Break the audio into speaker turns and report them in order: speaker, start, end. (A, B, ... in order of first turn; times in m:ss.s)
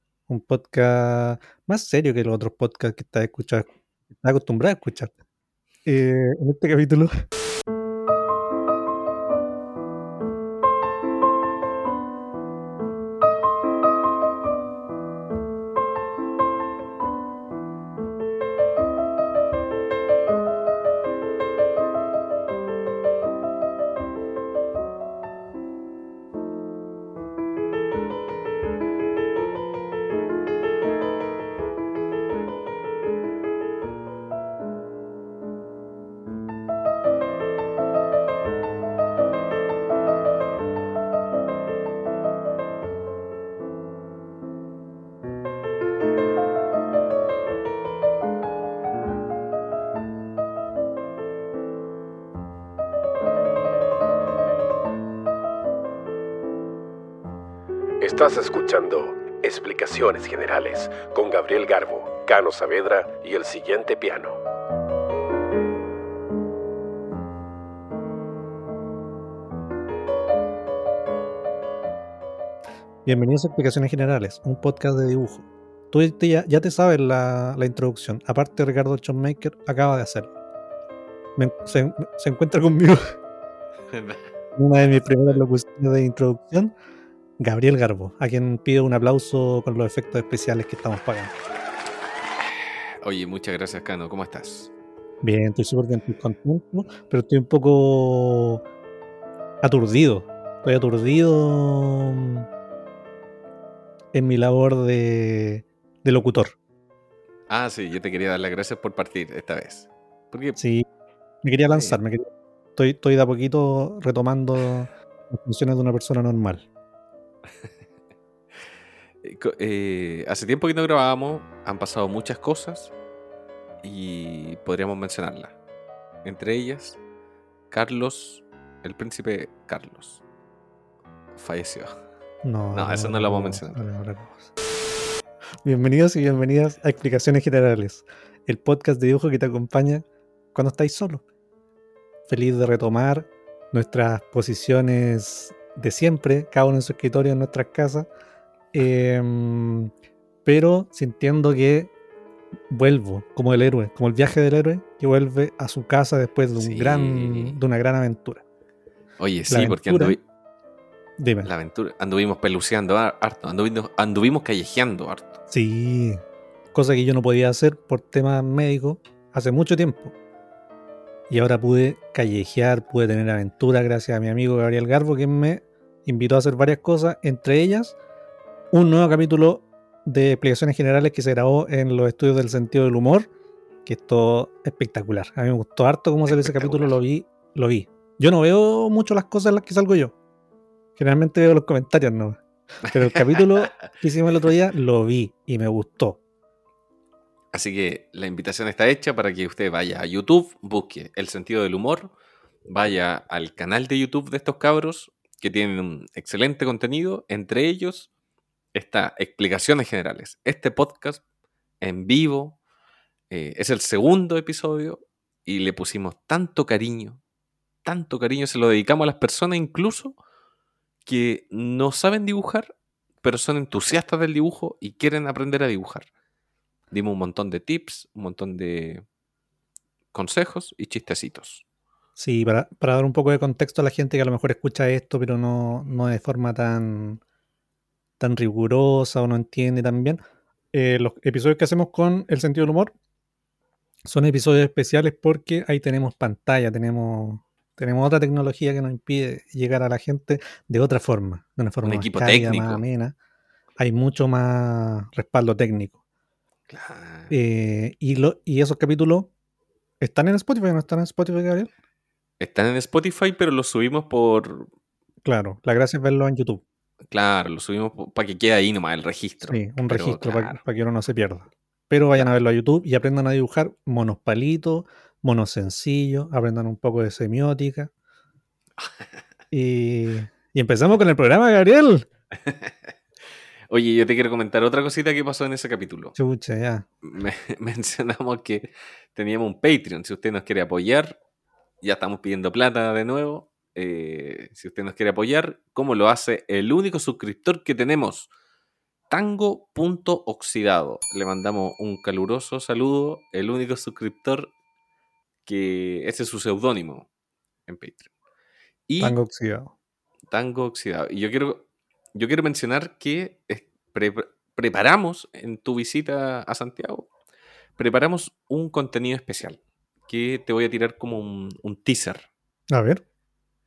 0:00.3-0:05.1 A
0:05.8-0:07.1 A
0:58.0-1:04.4 B
1:13.0-1:20.3 A
1:21.4-1:23.0 A
1:23.9-1:24.3 C
1:24.6-1:26.7 A
1:27.4-1:31.3 A
1:33.0-1:34.7 C
1:35.2-1:38.6 A
1:39.6-1:42.4 A
1:44.1-1:46.5 A
1:47.5-1:50.6 C
1:50.6-1:50.8 A
1:51.4-1:56.6 A
1:59.2-2:02.9 C
2:03.8-2:05.5 C
2:06.2-2:07.0 C
2:07.7-2:10.2 C
2:11.3-2:11.9 C
2:12.4-2:14.5 A
2:12.7-2:13.8 C
2:15.6-2:21.2 A
2:22.3-2:28.1 A
2:28.7-2:29.9 A
2:30.4-2:31.9 A
2:32.7-2:38.4 A
2:36.6-2:37.6 C
2:39.2-2:40.2 C
2:39.5-2:40.2 A
2:41.2-2:41.5 A
2:41.4-2:45.4 C
2:45.5-2:46.2 A
2:46.7-2:50.1 A
2:51.3-2:58.0 A
2:58.7-3:03.3 A
3:03.8-3:10.1 A
3:06.3-3:07.0 C
3:11.0-3:16.2 A
3:12.9-3:13.7 C
3:17.5-3:22.1 C
3:22.7-3:28.1 C
3:28.7-3:31.2 C
3:31.8-3:32.6 C
3:33.3-3:37.2 C
3:37.8-3:40.2 C
3:41.0-3:42.7 C
3:43.2-3:46.1 C
3:46.9-3:49.0 C
3:50.1-3:51.6 C
3:52.2-3:57.2 A
3:58.2-4:00.2 A
4:00.7-4:02.9 A
4:04.1-4:13.1 A
4:11.8-4:12.8 C
4:13.8-4:16.0 A
4:16.7-4:17.3 C
4:17.3-4:19.3 A
4:20.0-4:21.7 A
4:22.4-4:24.7 C
4:25.2-4:26.6 A
4:27.1-4:30.6 C
4:29.5-4:37.9 A
4:38.8-4:39.1 C
4:39.5-4:42.0 A
4:42.4-4:42.9 C
4:43.7-4:46.1 C
4:46.2-4:46.8 A
4:47.0-4:51.2 C
4:51.8-4:58.3 C
4:59.1-5:04.5 C
5:05.4-5:07.1 C
5:07.7-5:08.1 C
5:08.9-5:09.2 C
5:09.0-5:09.7 A
5:10.3-5:17.1 C
5:17.8-5:22.3 C
5:22.7-5:23.0 A